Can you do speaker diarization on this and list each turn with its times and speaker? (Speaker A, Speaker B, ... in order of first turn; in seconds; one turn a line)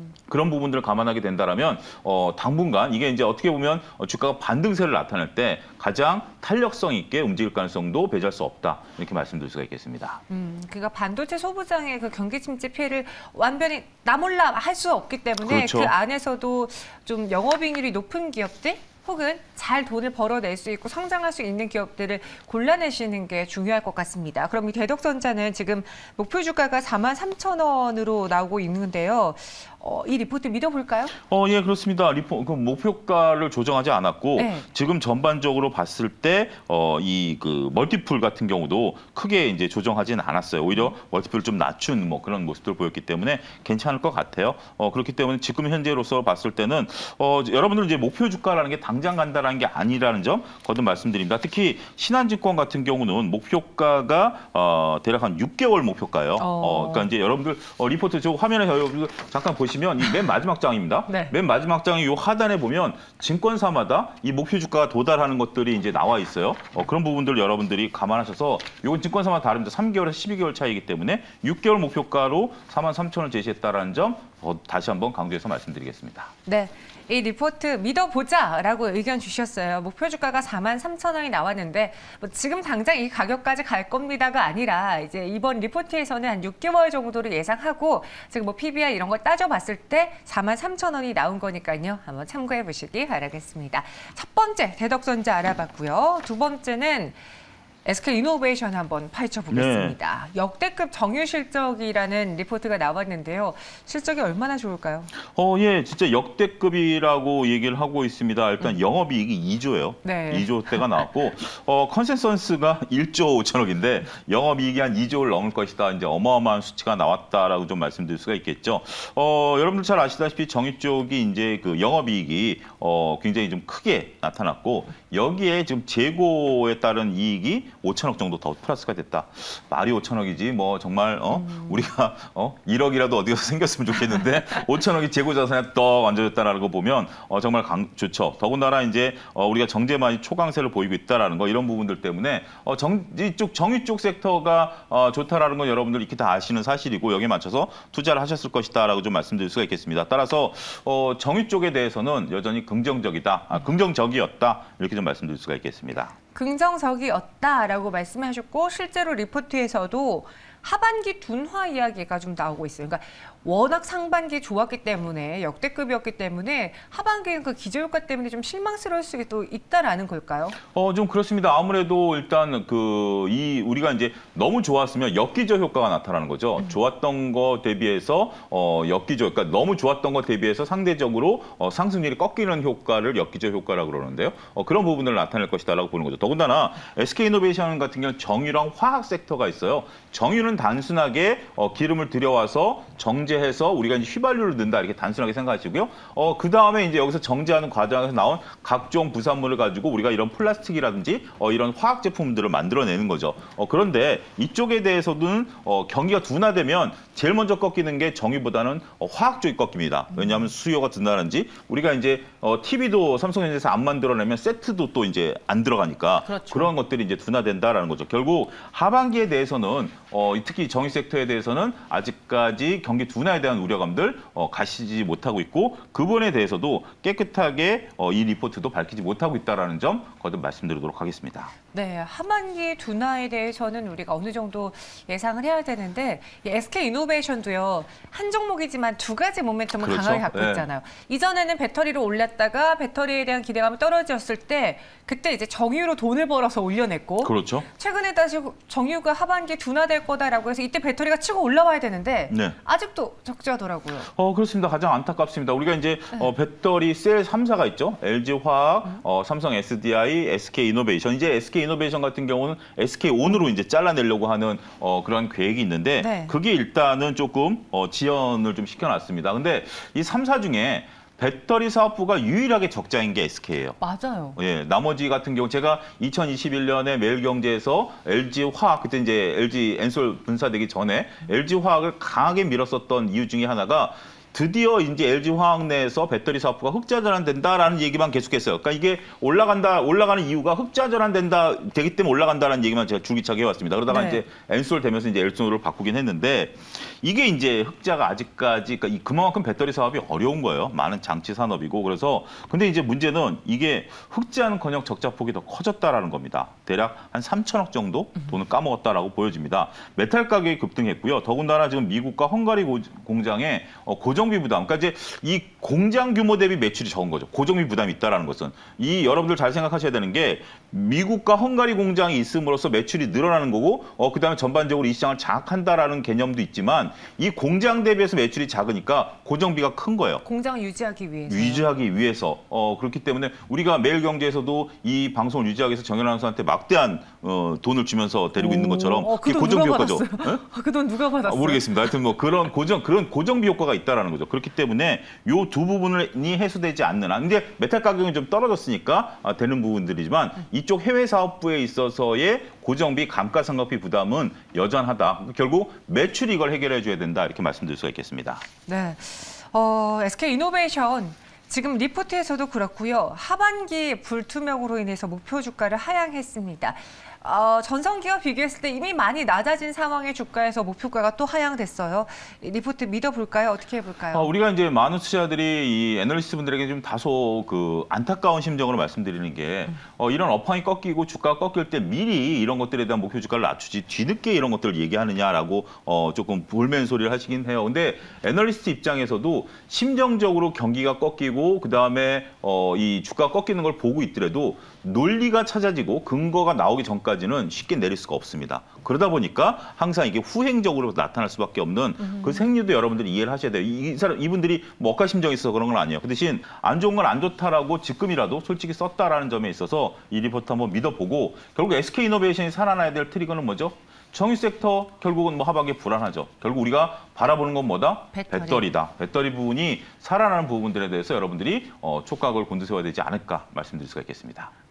Speaker A: 0.3-10.2
Speaker B: 10.3-31.1
Speaker A: 15.4-15.9
Speaker A: 31.3-76.3
Speaker B: 34.4-34.7
Speaker B: 56.4-57.1
Speaker B: 61.1-61.4
Speaker B: 76.5-97.2
Speaker B: 97.8-105.1
Speaker A: 99.5-100.0
Speaker A: 105.3-156.2
Speaker B: 110.0-110.6
Speaker B: 131.3-131.8
Speaker B: 156.3-170.6
Speaker A: 170.7-231.5
Speaker B: 210.1-210.5
Speaker B: 216.2-216.7
Speaker B: 231.7-254.1
Speaker A: 239.8-240.7
Speaker A: 247.2-247.7
Speaker A: 252.3-252.6
Speaker A: 254.0-273.8
Speaker B: 266.0-266.4
Speaker B: 273.8-274.4
Speaker A: 274.4-330.2
Speaker B: 293.9-294.2
Speaker B: 330.2-331.7
Speaker A: 331.3-340.4
Speaker B: 338.4-341.8
Speaker A: 341.2-358.5
Speaker B: 358.7-374.3
Speaker A: 374.1-424.5
Speaker B: 402.0-402.4
Speaker B: 418.1-418.7